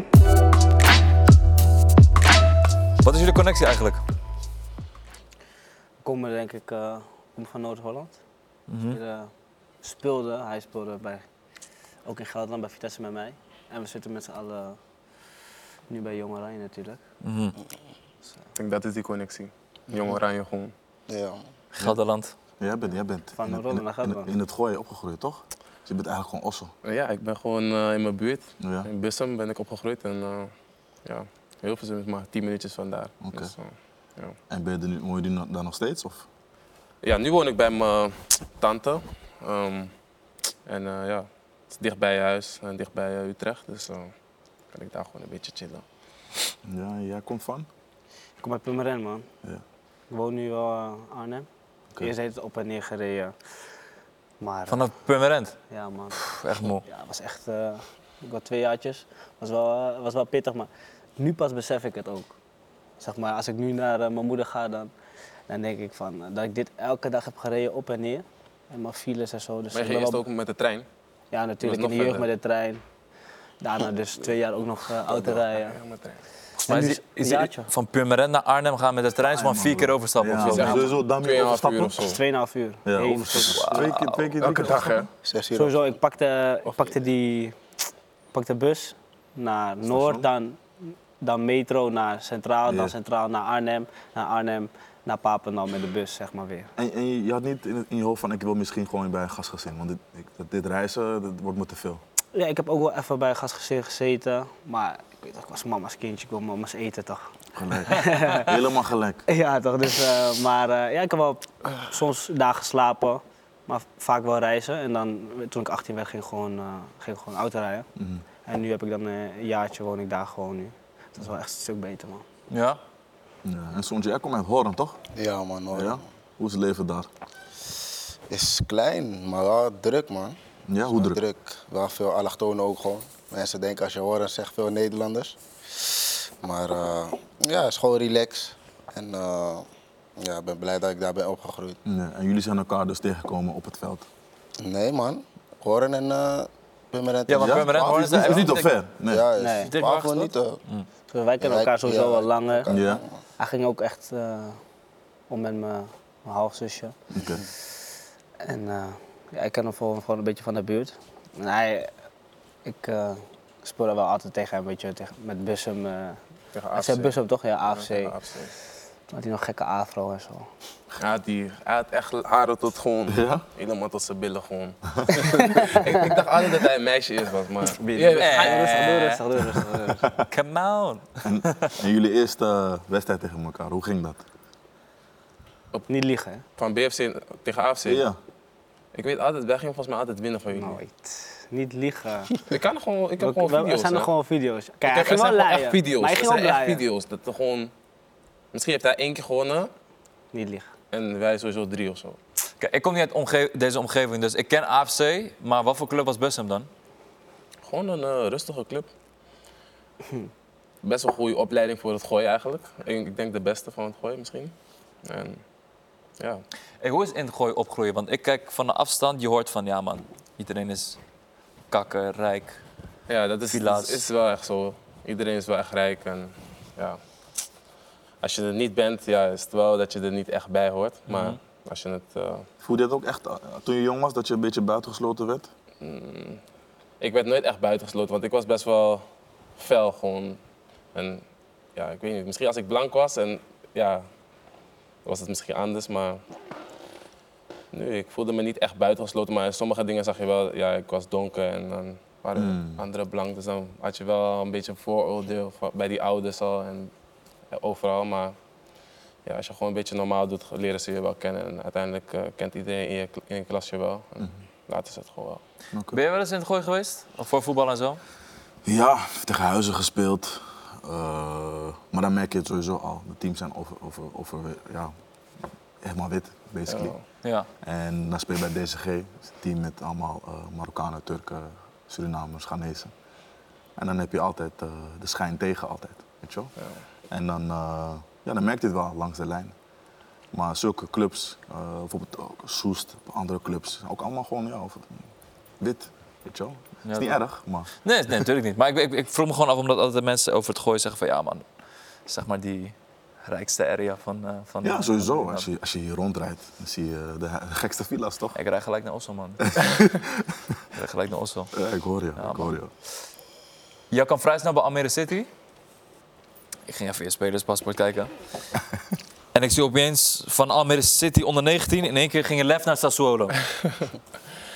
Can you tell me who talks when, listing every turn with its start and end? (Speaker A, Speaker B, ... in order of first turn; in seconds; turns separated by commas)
Speaker A: 3.0-4.0, Speaker B: 6.0-8.2, Speaker A: 8.7-9.0, Speaker B: 8.9-9.3, Speaker B: 9.8-11.2, Speaker B: 12.1-14.8, Speaker B: 15.9-17.0, Speaker A: 17.2-17.6, Speaker C: 18.6-20.7, Speaker D: 21.1-21.4, Speaker A: 21.8-22.3, Speaker E: 22.6-26.7, Speaker B: 23.4-24.3, Speaker C: 26.8-30.5, Speaker E: 28.6-28.9, Speaker C: 31.1-34.4, Speaker E: 33.2-33.5, Speaker E: 34.5-36.2, Speaker C: 37.0-39.9, Speaker C: 40.7-44.1, Speaker C: 44.7-45.8, Speaker E: 46.6-47.7, Speaker B: 48.4-49.3, Speaker B: 50.1-51.5, Speaker B: 52.0-53.4, Speaker B: 54.4-54.9, Speaker A: 54.7-55.6, Speaker B: 55.7-62.3, Speaker A: 56.2-56.8, Speaker B: 63.0-64.9, Speaker B: 65.5-70.2, Speaker C: 69.7-70.9, Speaker B: 71.3-72.8, Speaker C: 71.6-72.3, Speaker B: 73.6-75.8, Speaker C: 75.1-76.2, Speaker A: 76.6-80.8, Speaker B: 76.7-77.7, Speaker E: 79.2-82.1, Speaker C: 80.4-82.2, Speaker B: 80.5-80.9, Speaker B: 82.0-83.9, Speaker E: 82.9-85.1, Speaker A: 83.4-84.4, Speaker C: 84.4-85.1, Speaker D: 85.2-86.0, Speaker B: 85.5-87.6, Speaker B: 88.3-96.7, Speaker E: 89.8-90.3, Speaker E: 92.7-93.0, Speaker E: 96.8-102.0, Speaker B: 102.3-107.3, Speaker E: 107.5-109.2, Speaker B: 107.8-108.6, Speaker B: 109.3-117.9, Speaker E: 118.0-118.2, Speaker B: 118.5-122.2, Speaker A: 122.5-122.8, Speaker E: 123.4-125.0, Speaker D: 125.1-126.1, Speaker E: 125.7-127.1, Speaker D: 128.3-139.7, Speaker E: 130.7-131.2, Speaker D: 140.2-141.8, Speaker E: 141.8-144.1, Speaker D: 144.6-150.6, Speaker A: 147.3-148.7, Speaker E: 147.4-149.3, Speaker B: 149.4-149.7, Speaker A: 149.6-150.9, Speaker B: 151.1-152.7, Speaker D: 151.4-153.1, Speaker E: 152.7-153.0, Speaker B: 153.4-154.6, Speaker B: 155.3-156.9, Speaker E: 157.1-157.4, Speaker B: 158.4-161.9, Speaker B: 162.7-166.2, Speaker C: 166.5-168.5, Speaker B: 166.8-168.1, Speaker B: 169.1-170.5, Speaker C: 171.0-178.8, Speaker E: 173.1-173.4, Speaker B: 175.4-175.9, Speaker B: 177.7-180.1, Speaker A: 178.2-179.5, Speaker A: 180.2-181.8, Speaker E: 181.2-184.2, Speaker B: 185.9-186.4, Speaker C: 186.6-188.1, Speaker E: 187.8-188.2, Speaker C: 188.9-190.8, Speaker B: 190.5-192.5, Speaker C: 192.4-194.1, Speaker B: 193.2-196.8, Speaker C: 194.8-197.7, Speaker C: 198.5-199.7, Speaker B: 200.3-200.7, Speaker C: 200.9-202.2, Speaker A: 202.6-206.7, Speaker C: 207.7-208.9, Speaker C: 210.8-215.4, Speaker C: 216.2-216.4, Speaker A: 216.8-221.0, Speaker A: 221.7-222.6, Speaker C: 223.1-227.0, Speaker A: 223.5-224.1, Speaker C: 228.2-232.5, Speaker A: 231.1-231.4, Speaker E: 232.6-235.5, Speaker C: 235.8-236.4, Speaker C: 237.0-239.0, Speaker C: 239.6-240.4, Speaker C: 240.9-241.2, Speaker C: 241.8-244.1, Speaker C: 245.1-246.2, Speaker C: 247.7-256.9, Speaker E: 252.4-252.8, Speaker C: 257.5-258.4, Speaker C: 259.3-265.4, Speaker E: 265.7-266.0, Speaker A: 265.9-268.0, Speaker E: 268.6-274.9, Speaker E: 275.8-276.9, Speaker C: 276.7-277.0, Speaker E: 277.6-282.9, Speaker E: 283.8-286.5, Speaker E: 287.1-289.6, Speaker E: 290.3-295.1, Speaker E: 295.6-297.7, Speaker A: 296.9-297.2, Speaker A: 297.8-301.5, Speaker A: 302.1-305.5, Speaker E: 304.6-308.4, Speaker A: 308.3-309.9, Speaker E: 309.4-310.6, Speaker A: 310.7-311.6, Speaker E: 311.5-312.7, Speaker A: 312.2-312.6, Speaker A: 313.9-315.3, Speaker A: 316.7-318.1, Speaker A: 319.3-323.4